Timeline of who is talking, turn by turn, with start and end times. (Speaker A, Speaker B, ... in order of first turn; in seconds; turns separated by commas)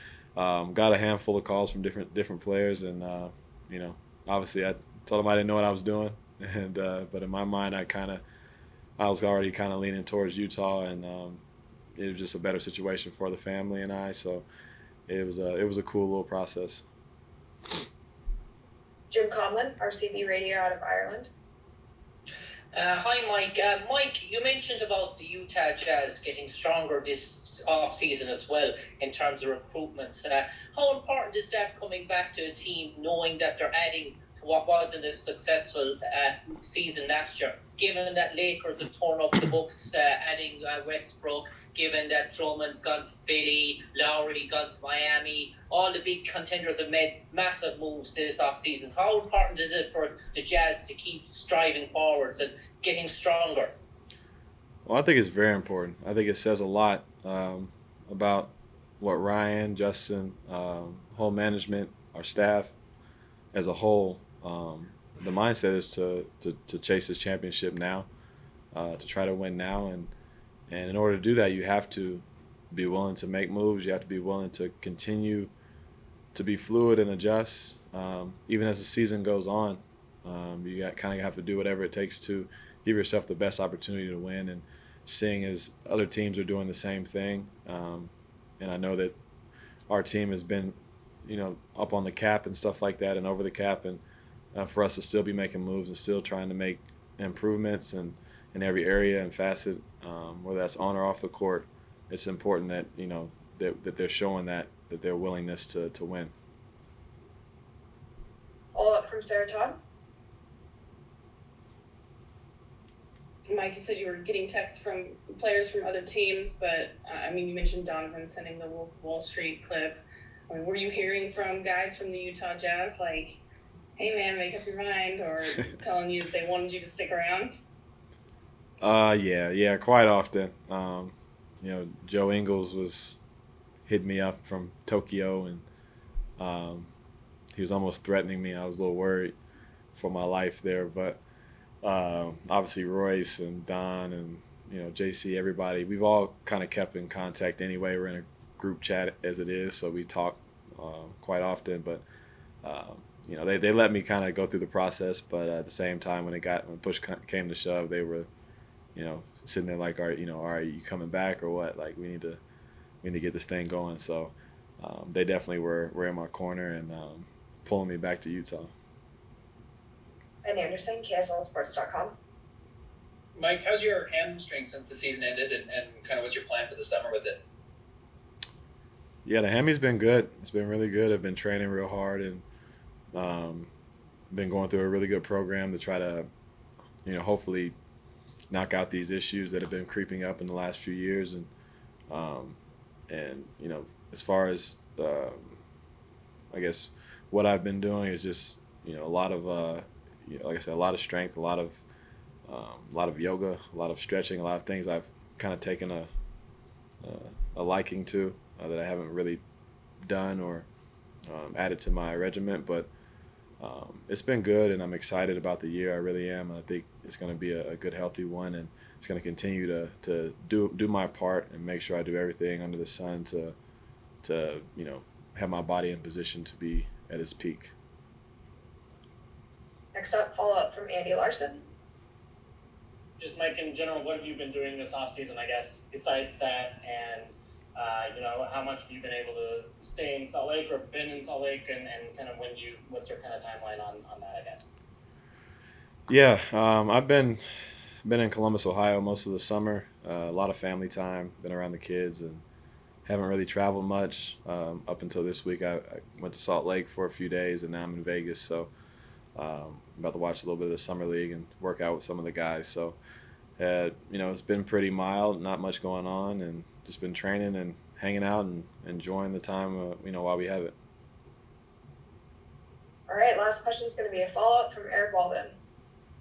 Speaker A: 0.4-8.2, Speaker A: 9.0-11.4, Speaker A: 12.0-14.5, Speaker A: 15.1-16.9, Speaker B: 19.1-21.3, Speaker C: 22.7-53.8, Speaker A: 54.9-62.8, Speaker A: 63.5-68.1, Speaker A: 68.7-70.1, Speaker A: 70.7-75.5, Speaker A: 76.3-89.2, Speaker A: 89.9-94.0, Speaker A: 94.5-106.3, Speaker B: 108.7-109.8, Speaker D: 113.5-123.4, Speaker D: 124.0-127.6, Speaker A: 128.8-133.2, Speaker A: 133.9-135.7, Speaker A: 136.4-136.9, Speaker A: 137.5-139.3, Speaker A: 139.9-141.2, Speaker A: 141.8-152.1, Speaker A: 152.6-158.3, Speaker A: 158.9-162.4, Speaker A: 163.0-168.7, Speaker B: 170.4-172.2, Speaker E: 173.4-177.4, Speaker A: 179.2-182.4, Speaker A: 183.1-183.7, Speaker A: 184.3-186.3, Speaker A: 187.1-187.8, Speaker A: 188.5-191.5, Speaker A: 192.1-192.6, Speaker A: 193.1-195.6, Speaker A: 196.5-201.8, Speaker A: 202.5-206.1, Speaker A: 207.0-209.4, Speaker A: 210.0-210.7, Speaker A: 211.3-212.9, Speaker A: 213.6-223.6, Speaker A: 224.2-227.7, Speaker B: 229.9-231.6, Speaker F: 233.2-244.7, Speaker A: 246.1-247.4, Speaker A: 248.0-252.4, Speaker A: 253.1-258.7, Speaker A: 259.4-263.0, Speaker A: 263.6-270.8, Speaker B: 273.1-275.6